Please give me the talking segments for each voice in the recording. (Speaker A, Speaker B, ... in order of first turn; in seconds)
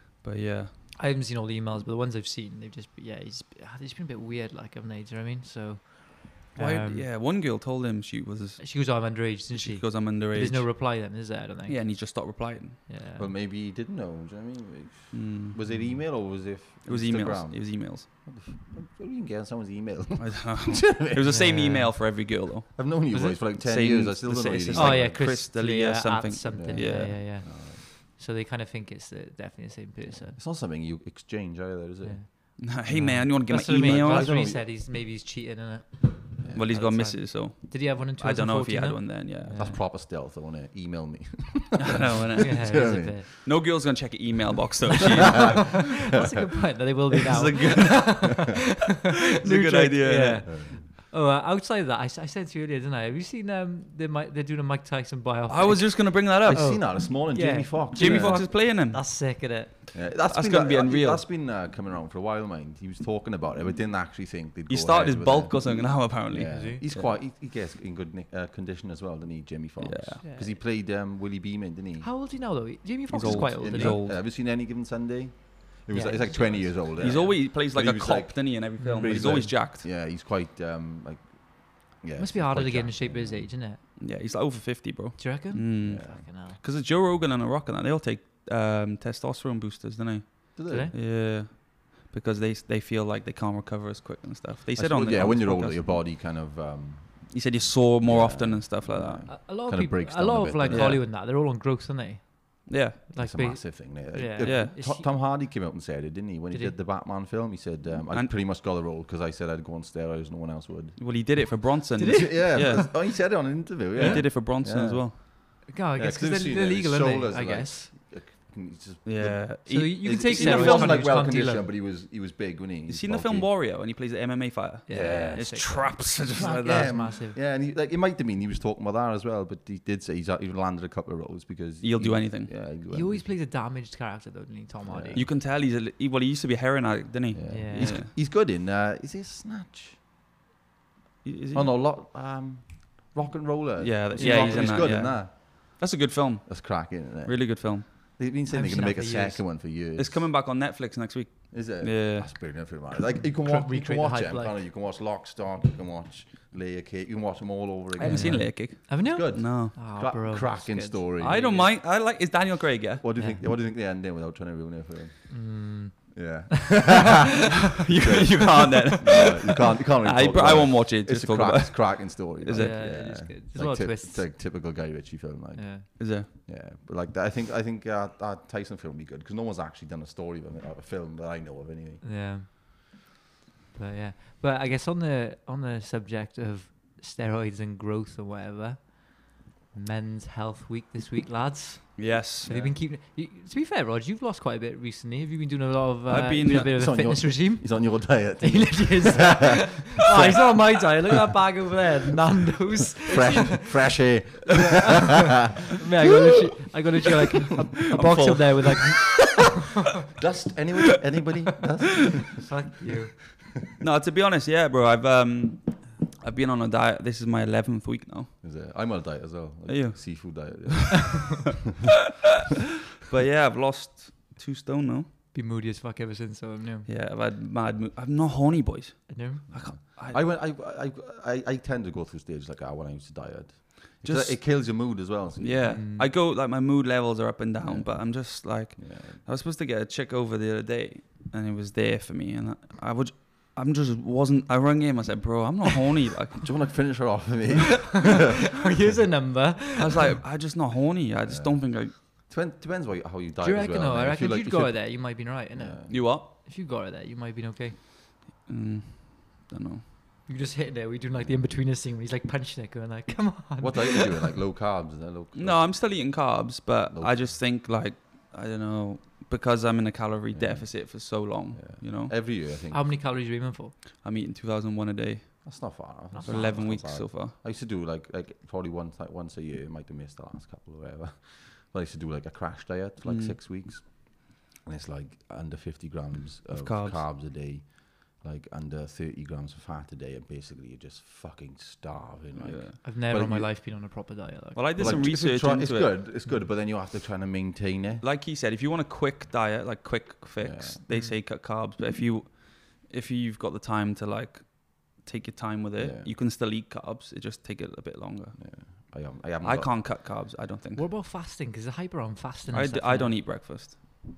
Speaker A: 0.2-0.7, 6.6-10.8, 11.7-12.8, 15.1-15.9, 16.9-18.1, 20.2-27.2, 32.6-34.3, 36.5-39.6, 41.8-45.8, 47.3-50.5, 55.5-56.8, 58.0-59.3, 60.2-61.2, 64.7-67.2, 69.8-70.2, 73.1-74.2, 77.0-79.9, 84.0-96.0, 97.3-99.3, 100.7-101.0, 102.7-103.0, 104.4-104.7, 111.0-115.2, 119.0-121.1, 122.9-127.0, 131.8-132.5, 135.1-138.1, 141.2-141.8, 143.8-147.9, 150.0-152.6, 158.0-159.8, 161.2-163.1, 167.8-169.4, 170.0-173.1, 176.0-176.3, 192.0-192.7, 196.1-196.8, 207.9-208.8, 213.8-218.3, 219.7-221.2, 223.1-225.1, 226.9-230.2, 234.0-246.5, 249.8-251.9, 255.9-256.3, 258.4-259.8, 265.4-272.1, 274.0-277.3, 283.1-283.4, 286.5-287.1, 292.4-292.8, 294.6-296.0, 298.0-310.9, 312.5-313.8
Speaker B: 1.0-7.1, 8.6-12.0, 12.9-13.3, 21.3-21.9, 23.1-23.4, 24.7-30.4, 32.0-39.8, 42.4-43.3, 45.1-59.9, 66.5-66.8, 70.2-70.6, 72.0-74.0, 75.9-77.4, 78.8-79.2, 82.2-83.8, 85.2-86.6, 90.7-90.9, 99.3-105.0, 106.5-106.8, 112.0-113.0, 114.0-114.3, 115.7-117.9, 119.7-121.7, 124.9-127.4, 132.9-135.2, 137.5-137.9, 144.2-145.0, 148.5-149.6, 153.4-154.6, 158.0-161.6, 163.2-163.4, 165.3-167.3, 167.8-169.3, 172.5-174.4, 175.6-175.9, 182.0-182.8, 183.7-209.6, 212.4-213.4, 225.3-226.9, 229.1-229.7, 235.7-236.1, 247.8-250.2, 253.4-257.8, 260.3-264.3, 272.7-273.8, 276.1-276.8, 292.8-295.0, 300.9-301.2, 310.8-313.8
Speaker C: 13.2-21.4, 22.8-25.3, 26.5-27.9, 30.1-32.2, 33.5-34.6, 36.4-36.8, 39.5-43.5, 45.4-45.8, 50.5-50.8, 56.4-58.5, 59.9-72.1, 73.1-83.5, 85.8-86.2, 90.5-90.9, 94.7-97.4, 98.0-101.0, 103.2-111.0, 112.1-123.5, 124.9-133.3, 134.8-135.3, 137.3-140.0, 141.5-145.8, 146.5-150.3, 151.5-161.7, 163.0-182.0, 192.5-192.7, 196.5-200.6, 203.1-205.1, 210.2-212.5, 218.4-221.6, 229.5-235.7, 237.6-239.2, 246.4-248.3, 251.3-256.0, 261.2-261.5, 263.6-265.8, 266.9-267.3, 270.3-272.8, 275.4-293.5, 294.8-298.0, 300.4-300.8, 305.8-306.1, 308.4-309.8